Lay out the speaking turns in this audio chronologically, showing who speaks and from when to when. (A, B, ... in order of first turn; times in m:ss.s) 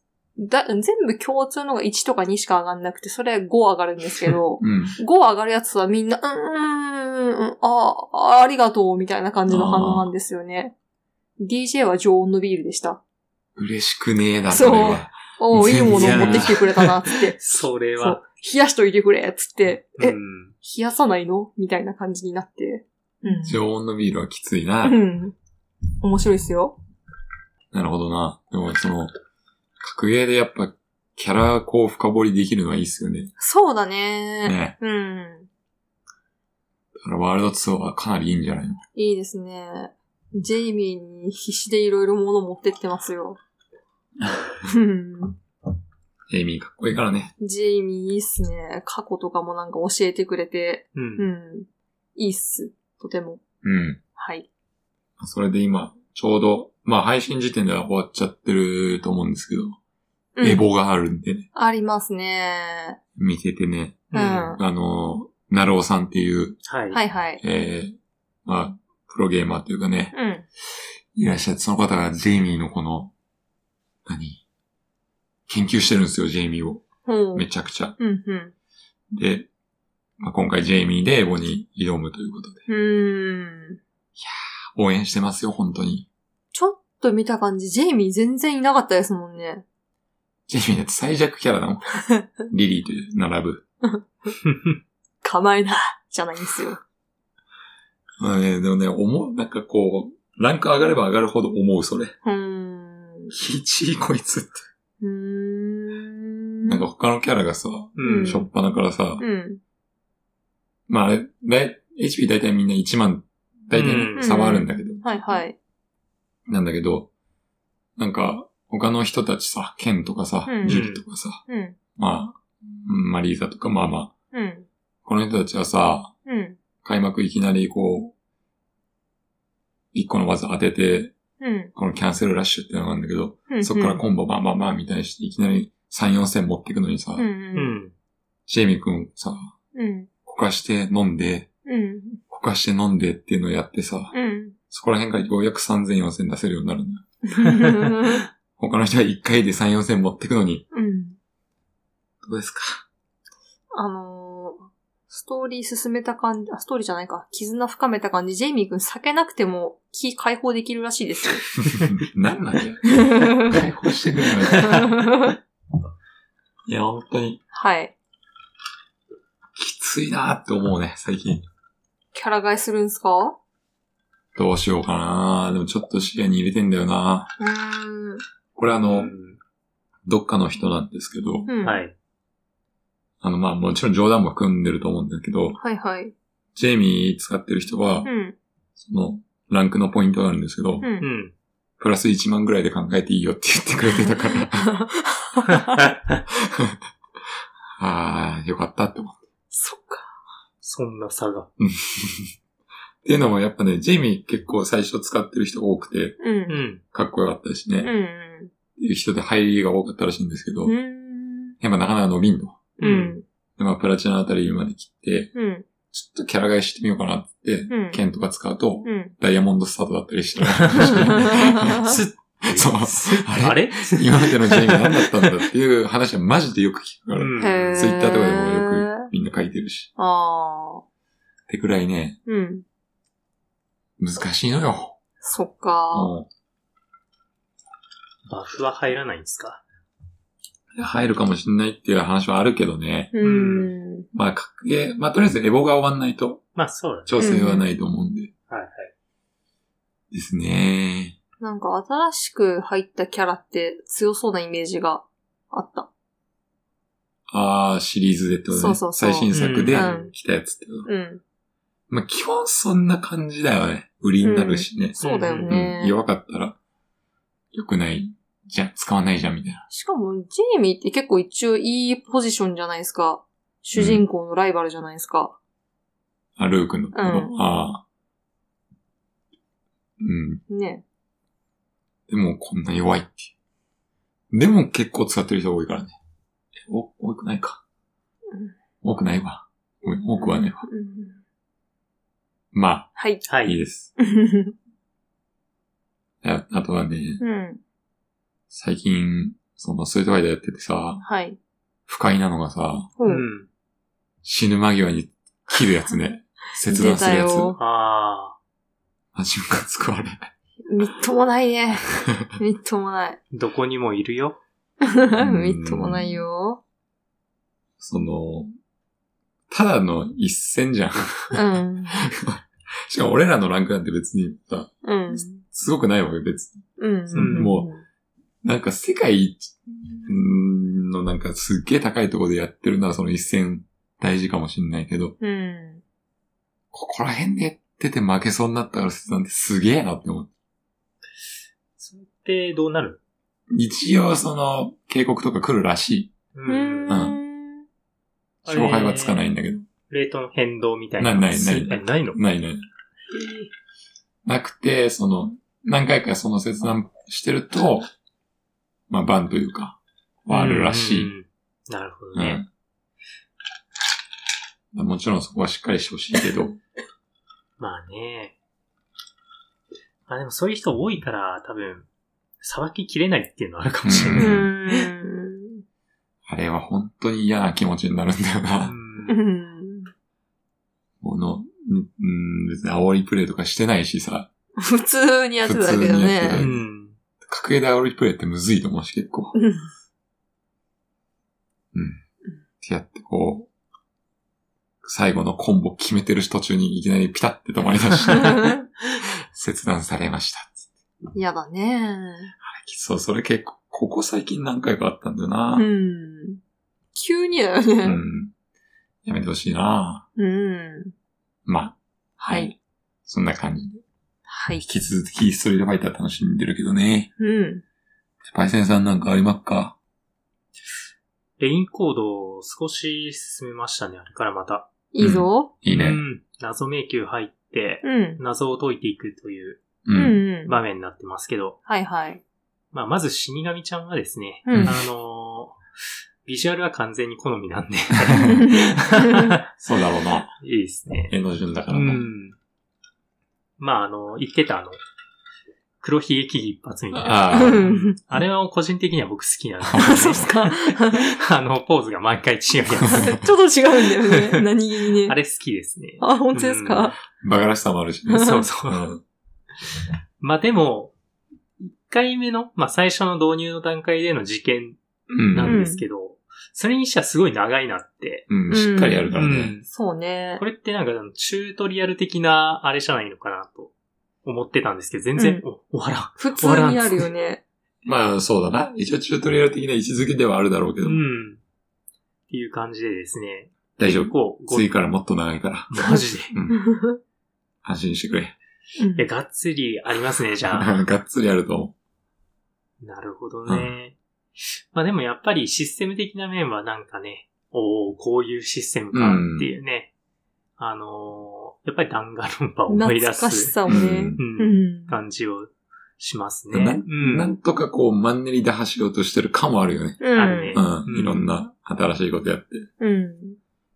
0:00.4-0:10.7 A
0:04.6-0:05.0 B
0:09.5-0:10.1 B
0:11.4-0:13.0 A
0:13.6-0:16.6 B
0:14.5-0:23.6 A
0:15.9-0:18.2 C
0:20.0-0:20.5 C
0:23.4-0:25.0 B
0:24.8-0:25.3 A
0:26.0-0:26.8 A
0:27.7-0:29.1 B
0:29.8-0:33.3 B
0:33.4-0:35.5 A
0:34.4-0:34.8 B
0:37.0-0:38.8 B
0:38.9-0:43.4 A
0:44.6-0:45.4 A
0:46.3-0:47.3 B
0:47.4-0:53.4 A
0:50.9-0:51.2 C
0:53.6-0:54.0 B
0:54.2-0:54.5 A
0:55.2-0:59.8 B
1:00.4-1:00.6 A
1:00.4-1:01.5 B
1:01.5-1:03.0 A
1:03.2-1:06.6 B
1:04.1-1:04.6 A
1:04.1-1:04.4 C
1:06.7-1:07.0 C
1:06.9-1:07.4 A
1:07.4-1:10.1 B
1:10.1-1:10.4 A
1:11.1-1:13.1 B
1:14.0-1:14.4 B
1:15.5-1:18.0 B
1:17.0-1:17.4 A
1:18.0-1:18.5 A
1:19.1-1:19.5 B
1:20.2-1:22.7 B
1:22.7-1:23.8 A
1:24.2-1:26.1 B
1:26.5-1:29.6 A
1:30.5-1:33.6 B
1:33.8-1:34.3 A
1:34.4-1:34.8 C
1:35.2-1:36.8 A
1:38.2-1:42.2 B
1:42.2-1:43.3 A
1:43.3-1:44.6 B
1:45.0-1:46.8 A
1:46.7-1:49.2 B
1:48.0-1:48.4 C
1:48.0-1:48.5 A
1:49.2-1:49.6 A
1:50.9-1:55.4 B
1:53.7-1:54.3 C
1:54.2-1:55.6 A
1:56.5-1:57.1 B
1:58.0-2:01.4 B
2:00.4-2:00.8 A
2:00.6-2:01.0 C
2:01.5-2:01.8 A
2:02.0-2:04.1 B
2:04.3-2:04.7 A
2:05.0-2:06.1 B
2:06.2-2:06.6 A
2:06.8-2:08.1 B
2:09.9-2:11.1 B
2:11.4-2:11.7 A
2:11.7-2:17.3 B
2:13.5-2:14.0 A
2:17.2-2:17.8 A
2:17.5-2:17.9 C
2:18.5-2:19.5 B
2:19.7-2:20.1 A
2:20.2-2:21.5 B
2:21.6-2:22.2 A
2:22.3-2:24.1 B
2:24.1-2:24.6 A
2:24.7-2:27.0 B
2:27.2-2:28.2 A
2:28.6-2:30.6 B
2:30.7-2:31.2 A
2:32.2-2:32.8 B
2:33.7-2:41.4 A
2:41.6-2:45.0 B
2:43.0-2:43.5 A
2:44.6-2:45.3 A
2:46.6-2:47.4 B
2:47.5-2:47.9 A
2:49.6-2:51.4 B
2:52.1-2:53.4 A
2:54.3-2:57.3 B
2:57.4-2:58.2 A
2:58.6-2:59.1 B
2:58.7-2:59.4 C
3:00.0-3:01.5 B
3:01.5-3:01.8 A
3:01.6-3:01.9 C
3:03.2-3:05.6 B
3:05.6-3:06.1 A
3:06.5-3:08.1 B
3:08.0-3:08.4 A
3:08.8-3:10.9 B
3:10.8-3:11.1 A
3:11.0-3:11.3 C
3:11.8-3:14.8 B
3:14.6-3:15.8 A
3:15.8-3:16.1 C
3:16.3-3:16.8 B
3:17.8-3:19.2 B
3:19.5-3:20.1 A
3:20.6-3:21.5 C
3:21.6-3:22.3 B
3:23.0-3:26.2 B
3:26.2-3:26.6 A
3:26.5-3:26.8 C
3:26.9-3:27.9 B
3:27.8-3:28.5 A
3:28.8-3:30.8 B
3:30.6-3:31.6 A
3:31.6-3:32.6 B
3:32.8-3:33.2 A
3:32.8-3:33.2 C
3:33.6-3:35.3 B
3:35.3-3:35.6 A
3:35.9-3:49.9 B
3:37.7-3:38.0 A
3:38.8-3:39.1 A
3:40.6-3:45.3 C
3:40.9-3:41.8 A
3:47.2-3:47.8 C
3:47.4-3:49.1 A
3:50.0-3:50.8 A
3:51.5-3:52.2 B
3:52.2-3:52.6 A
3:54.0-3:55.0 B
3:55.2-3:56.1 A
3:55.9-3:56.3 B
3:58.3-3:59.6 C
4:00.7-4:03.1 B
4:03.1-4:04.1 A
4:03.2-4:03.7 C
4:04.1-4:06.4 B
4:06.6-4:07.2 C
4:07.1-4:08.3 B
4:07.2-4:07.7 A
4:08.5-4:08.9 C
4:10.1-4:11.2 B
4:11.4-4:15.9 A
4:17.3-4:20.9 B
4:18.5-4:20.1 A
4:19.3-4:20.1 C
4:20.8-4:21.2 A
4:21.9-4:26.6 B
4:24.2-4:25.9 A
4:25.0-4:25.5 C
4:27.5-4:29.6 B
4:29.7-4:35.3 A
4:33.7-4:34.0 B
4:36.4-4:37.8 B
4:36.9-4:37.4 A
4:40.0-4:40.4 B
4:40.5-4:40.8 A
4:42.1-4:43.3 B
4:44.3-4:45.9 B
4:46.6-4:47.6 B
4:48.8-4:50.7 B
4:50.2-4:51.2 A
4:52.5-4:53.9 B
4:53.0-4:53.2 A
4:53.2-4:53.6 C
4:54.0-4:54.5 A
4:56.2-4:57.2 B
4:57.2-4:57.6 A
4:58.5-5:01.0 B
5:01.0-5:01.4 A
5:01.9-5:02.9 B
5:03.0-5:03.2 A
5:03.0-5:03.5 C
5:04.2-5:07.6 B
5:06.7-5:07.6 A
5:07.6-5:08.4 C
5:09.1-5:10.2 B
5:10.7-5:13.2 A
5:13.3-5:14.4 C
5:14.8-5:16.6 A
5:15.2-5:16.2 B
5:17.8-5:18.5 B
5:19.5-5:26.6 B
5:21.3-5:22.0 A
5:24.8-5:25.4 A
5:26.8-5:27.8 A
5:27.1-5:27.5 C
5:27.2-5:27.7 B
5:28.4-5:35.2 B
5:35.2-5:35.8 A
5:36.7-5:40.3 B
5:41.8-5:43.0 C
5:43.5-5:46.1 B
5:46.3-5:46.9 C
5:46.5-5:47.6 A
5:46.9-5:47.2 B
5:48.4-5:49.2 C
5:48.4-5:49.6 B
5:49.9-5:52.2 C
5:51.0-5:52.6 B
5:53.1-5:53.5 C
5:54.2-5:57.9 B
5:58.9-6:01.1 B
6:00.3-6:02.4 C
6:02.1-6:02.5 B
6:04.7-6:06.6 B
6:07.6-6:08.4 C
6:10.1-6:11.9 C
6:12.4-6:14.9 C
6:13.8-6:14.5 B
6:14.2-6:15.6 A
6:16.3-6:18.7 B
6:18.6-6:19.2 C
6:19.1-6:19.9 A
6:21.0-6:24.3 B
6:24.6-6:26.4 A
6:25.4-6:26.6 B
6:26.3-6:27.0 C
6:27.2-6:29.3 B
6:29.3-6:29.6 A
6:31.7-6:32.0 B
6:32.6-6:33.5 B
6:34.8-6:38.7 B
6:38.1-6:38.6 A
6:39.3-6:40.7 B
6:41.1-6:42.3 A
6:42.4-6:45.7 B
6:45.6-6:46.4 A
6:46.9-6:48.0 A
6:47.8-6:48.3 B
6:49.0-6:50.0 B
6:50.2-6:50.9 A
6:51.4-6:53.8 B
6:52.2-6:52.5 A
6:54.3-6:54.6 A
6:54.6-6:57.1 B
6:57.2-6:57.6 A
6:58.2-6:59.8 B
7:01.4-7:04.7 C
7:04.9-7:05.5 A
7:05.0-7:06.0 B
7:05.7-7:09.8 C
7:07.8-7:08.2 A
7:09.8-7:10.2 B
7:09.9-7:10.6 A
7:10.4-7:11.6 C
7:11.6-7:12.2 A
7:12.7-7:15.6 C
7:14.4-7:14.7 A
7:14.5-7:14.8 B
7:16.2-7:19.4 C
7:18.1-7:18.5 B
7:18.3-7:19.4 A
7:19.5-7:20.3 B
7:20.4-7:21.1 C
7:21.1-7:22.0 B
7:21.7-7:22.4 C
7:23.6-7:24.8 C
7:25.8-7:33.2 C
7:26.9-7:27.7 B
7:27.3-7:28.0 A
7:29.7-7:31.0 A
7:32.9-7:35.2 A
7:33.8-7:34.4 C
7:35.0-7:36.9 C
7:36.0-7:37.0 A
7:37.2-7:39.0 B
7:38.1-7:38.4 A
7:38.2-7:38.8 C
7:40.2-7:40.9 C
7:41.6-7:48.3 C
7:45.1-7:45.6 B
7:45.4-7:45.8 A
7:48.3-7:49.6 B
7:48.5-7:49.1 A
7:49.1-7:49.6 C
7:49.7-7:50.4 A
7:50.4-7:53.7 C
7:54.2-7:57.1 C
7:55.2-7:55.4 A
7:56.2-7:57.4 A
7:57.8-8:01.0 B
8:00.8-8:01.4 C
8:02.3-8:04.7 C
8:03.8-8:06.7 B
8:05.7-8:06.3 C
8:06.5-8:07.0 A
8:07.6-8:08.4 B
8:08.8-8:09.0 A
8:09.0-8:10.7 C
8:10.5-8:11.7 B
8:12.8-8:19.9 C
8:18.9-8:19.5 B
8:20.6-8:27.3 C
8:22.7-8:24.9 A
8:23.7-8:24.2 B
8:26.5-8:32.7 B
8:30.0-8:30.7 A
8:30.1-8:31.3 C
8:32.8-8:33.4 A